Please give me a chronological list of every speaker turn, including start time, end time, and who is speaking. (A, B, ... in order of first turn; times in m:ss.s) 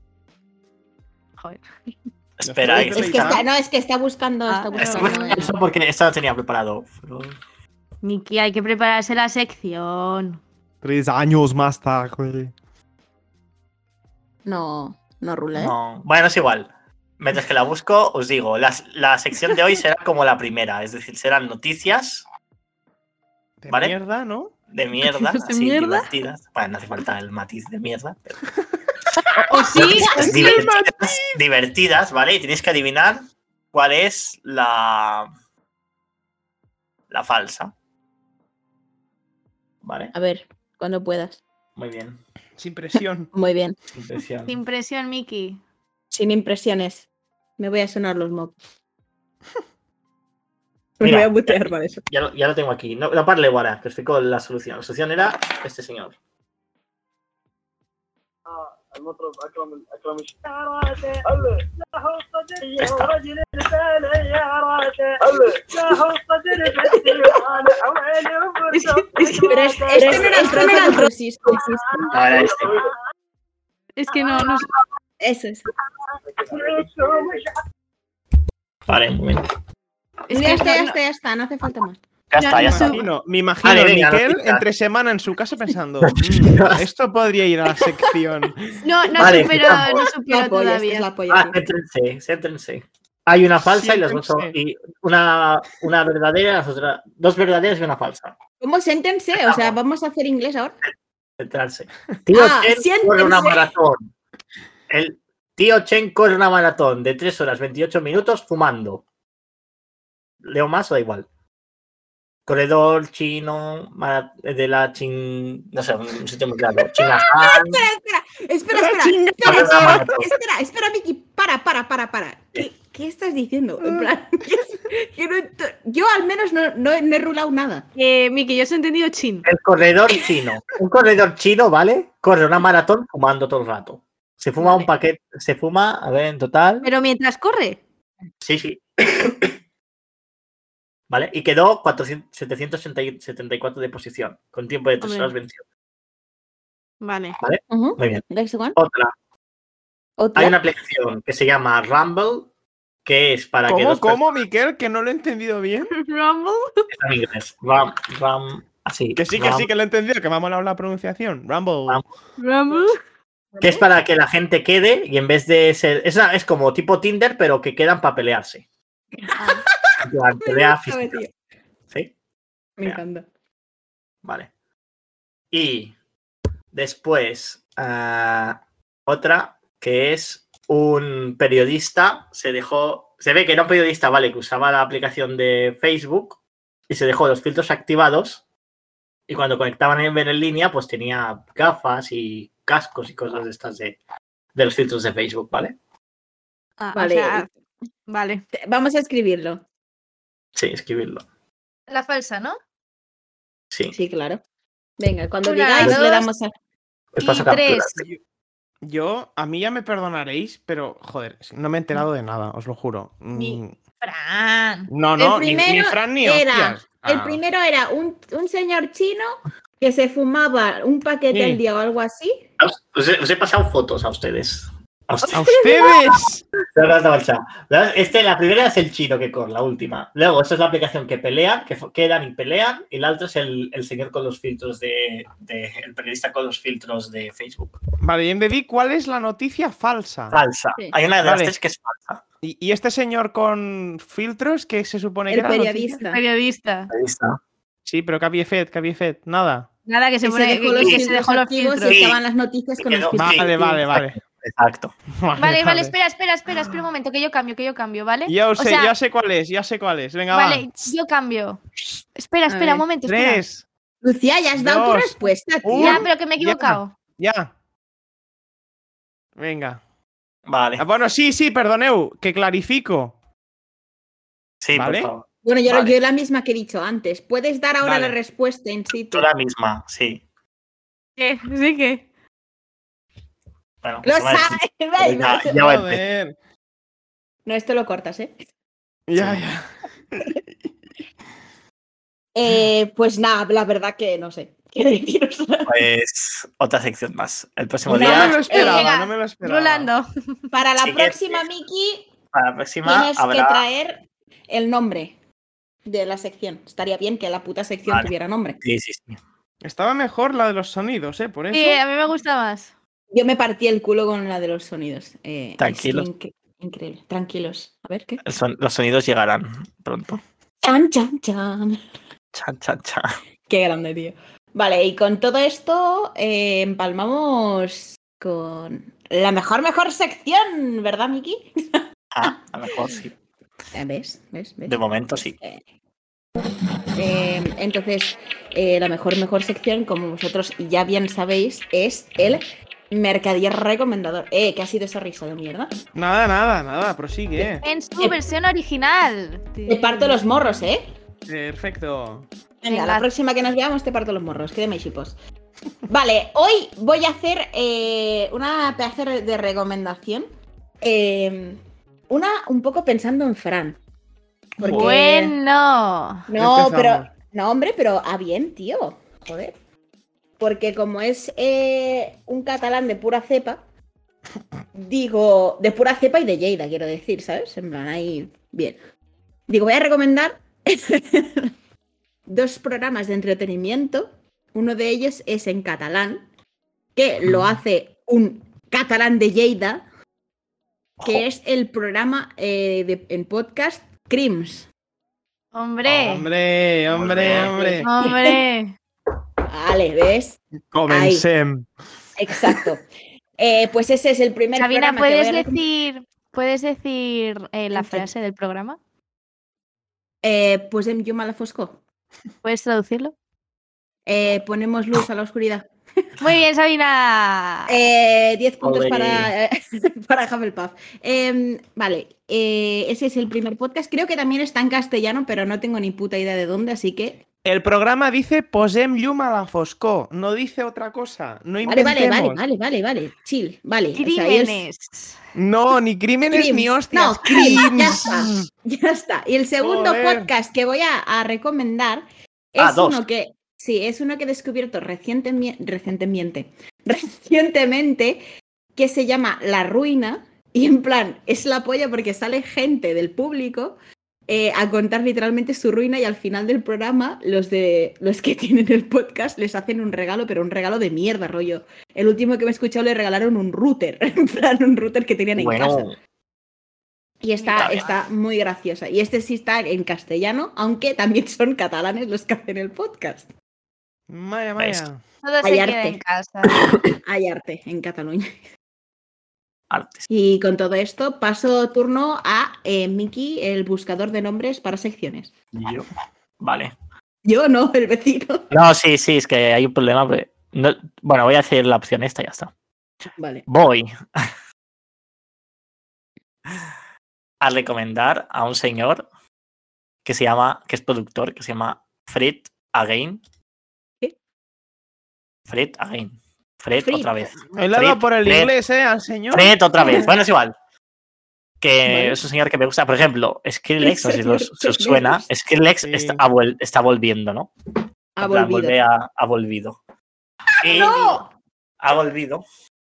0:01.4-0:01.9 A
0:02.4-0:03.4 B
0:02.4-0:03.5 C
0:02.7-0:05.6 D
0:04.5-0:05.5 A
0:04.7-0:07.4 B
0:08.0-0:10.4 A
0:10.8-0:12.5 C
0:14.5-0:15.7 D
0:15.6-0:22.2 B
0:23.6-0:24.5 C
0:23.7-0:24.0 B
0:24.7-0:28.4 B
0:25.0-0:26.1 A
0:29.3-0:31.4 C
0:29.5-0:30.7 A
0:29.7-0:35.3 B
0:37.1-0:37.7 B
0:39.8-0:40.1 B
0:40.1-0:41.4 D
0:41.8-0:42.2 B
0:42.6-0:43.3 C
0:43.0-0:43.8 D
0:44.0-0:44.6 B
0:44.5-0:45.6 A
0:46.1-0:48.5 D
0:51.0-0:52.0 D
0:51.0-0:56.2 B
0:58.9-1:12.9 E
1:02.8-1:03.1 B
1:08.7-1:11.1 A
1:09.5-1:12.1 D
1:12.1-1:12.8 B
1:14.0-1:14.7 A
1:15.2-1:15.6 D
1:16.4-1:17.5 E
1:18.9-1:19.5 B
1:20.3-1:21.0 A
1:20.3-1:22.0 D
1:22.3-1:23.1 B
1:22.4-1:23.0 A
1:22.5-1:29.5 C
1:23.6-1:24.6 B
1:26.0-1:26.8 B
1:28.8-1:31.1 A
1:29.2-1:30.0 B
1:30.3-1:31.6 D
1:31.3-1:38.4 B
1:33.6-1:34.6 C
1:38.6-1:40.7 D
1:39.4-1:39.8 B
1:41.4-1:44.1 B
1:42.3-1:43.7 D
1:44.9-1:49.0 B
1:50.4-1:51.3 B
1:52.5-1:57.8 B
1:56.9-2:07.9 D
1:58.8-1:59.1 C
1:59.4-2:00.3 B
2:08.0-2:09.5 A
2:09.4-2:16.9 B
2:14.6-2:14.9 A
2:16.8-2:17.8 A
2:18.4-2:19.5 B
2:21.1-2:25.6 B
2:25.0-2:25.3 A
2:27.0-2:27.4 A
2:27.4-2:29.1 B
2:27.7-2:28.8 D
2:30.2-2:30.6 D
2:30.4-2:32.5 B
2:33.0-2:34.3 B
2:33.7-2:35.9 C
2:36.0-2:36.9 A
2:36.9-2:39.7 B
2:39.2-2:42.0 C
2:42.4-2:43.0 A
2:43.5-2:43.9 D
2:43.6-2:48.6 B
2:49.2-2:51.3 D
2:49.4-2:49.6 A
2:50.0-2:51.2 B
2:52.8-2:53.3 D
2:54.2-2:54.5 B
2:55.5-2:55.9 B
2:56.7-3:06.4 B
3:06.9-3:08.4 B
3:09.3-3:14.0 B
3:14.6-3:15.8 B
3:16.8-3:17.5 A
3:16.9-3:17.5 D
3:18.1-3:18.4 A
3:18.5-3:19.6 D
3:20.6-3:21.2 B
3:21.9-3:22.6 A
3:23.9-3:24.4 D
3:25.0-3:26.5 D
3:25.4-3:26.3 A
3:27.1-3:28.0 B
3:27.2-3:28.0 A
3:28.8-3:33.8 C
3:33.4-3:34.9 A
3:34.9-3:37.4 C
3:35.2-3:42.3 D
3:41.3-3:41.6 C
3:42.6-3:45.5 B
3:45.3-3:46.4 C
3:46.8-3:57.8 B
3:58.0-4:00.4 C
4:00.3-4:02.2 B
4:01.2-4:01.5 C
4:02.4-4:06.0 C
4:05.3-4:06.2 D
4:06.0-4:06.9 A
4:06.9-4:07.4 B
4:07.9-4:09.7 C
4:09.9-4:12.0 A
4:10.2-4:13.8 D
4:11.9-4:12.2 B
4:12.8-4:14.9 B
4:13.2-4:14.2 C
4:15.2-4:16.0 C
4:15.4-4:18.9 A
4:18.3-4:20.7 C
4:20.3-4:21.6 A
4:22.2-4:23.4 A
4:22.5-4:22.9 D
4:23.0-4:23.6 C
4:24.0-4:26.1 D
4:24.6-4:27.5 C
4:25.8-4:26.9 A
4:29.4-4:29.8 C
4:30.5-4:30.8 B
4:30.8-4:33.2 C
4:34.6-4:36.0 B
4:34.7-4:35.1 C
4:35.4-4:39.3 D
4:37.8-4:38.2 C
4:39.1-4:40.2 B
4:41.2-4:42.0 A
4:43.8-4:46.0 B
4:44.0-4:45.6 D
4:45.5-4:46.4 C
4:47.5-4:48.4 D
4:49.1-4:50.7 C
4:49.2-4:49.4 B
4:52.4-4:55.8 D
4:55.7-4:58.4 B
4:57.9-4:58.9 D
4:57.9-4:59.9 C
4:58.5-5:00.1 A
5:00.5-5:02.1 D
5:00.8-5:01.4 B
5:02.3-5:03.6 B
5:02.8-5:05.2 D
5:05.9-5:08.6 D
5:07.9-5:09.2 B
5:09.6-5:11.8 C
5:11.5-5:12.7 A
5:13.1-5:18.2 D
5:15.6-5:16.1 B
5:18.2-5:20.2 B
5:20.6-5:21.8 D
5:22.3-5:23.1 B
5:23.5-5:31.8 D
5:32.1-5:33.1 B
5:33.7-5:34.8 D
5:34.7-5:35.4 B
5:37.0-5:45.7 D
5:46.0-5:47.6 C
5:47.6-5:50.2 A
5:49.7-5:50.8 D
5:51.3-5:52.3 C
5:52.6-5:55.2 D
5:52.7-5:53.0 A
5:55.9-6:00.3 D
6:00.8-6:03.8 D
6:04.6-6:05.4 D
6:04.6-6:06.3 A
6:06.3-6:09.5 D
6:06.4-6:07.1 C
6:10.4-6:13.6 D
6:14.7-6:18.8 D
6:19.5-6:21.5 D
6:22.3-6:26.2 D
6:27.0-6:29.8 D
6:31.0-6:34.7 D
6:35.5-6:36.3 A
6:35.8-6:37.9 C
6:36.9-6:37.6 B
6:37.2-6:38.4 D
6:37.8-6:38.7 A
6:39.5-6:41.3 D
6:40.7-6:41.7 C
6:42.2-6:42.8 D
6:42.3-6:42.6 C
6:43.4-6:45.6 D
6:44.6-6:48.8 A
6:47.7-6:48.1 D
6:50.2-6:51.8 D
6:52.4-6:53.1 A
6:54.1-6:55.7 D
6:56.2-6:57.8 A
6:57.7-7:07.2 D
6:58.6-6:59.3 B
7:07.4-7:12.4 C
7:11.6-7:14.7 D
7:14.0-7:15.2 A
7:15.4-7:18.5 C
7:16.3-7:28.2 D
7:19.6-7:20.3 C
7:22.6-7:23.0 B
7:28.8-7:45.9 D
7:45.4-7:46.0 B
7:47.2-7:53.3 D
7:47.4-7:47.9 A
7:47.6-7:47.8 B
7:54.1-7:55.0 C
7:54.6-7:54.8 B
7:55.2-7:56.6 A
7:55.4-7:56.0 D
7:56.9-7:58.3 D
7:59.7-8:00.1 B
8:00.1-8:05.3 D
8:05.5-8:05.9 B
8:06.4-8:06.7 B
8:07.2-8:08.5 D
8:08.5-8:12.5 B
8:13.2-8:13.5 D
8:13.5-8:14.3 B
8:17.4-8:19.1 B
8:20.0-8:23.2 B
8:25.5-8:28.5 B
8:26.8-8:27.3 D
8:27.5-8:29.6 C
8:29.3-8:30.5 B
8:29.8-8:30.1 D
8:31.6-8:37.5 B
8:31.9-8:32.2 D
8:33.8-8:35.3 D
8:35.8-8:36.2 C
8:38.2-8:38.8 D
8:38.2-8:39.8 B
8:40.6-8:41.2 B
8:40.6-8:41.3 D
8:41.8-8:42.4 B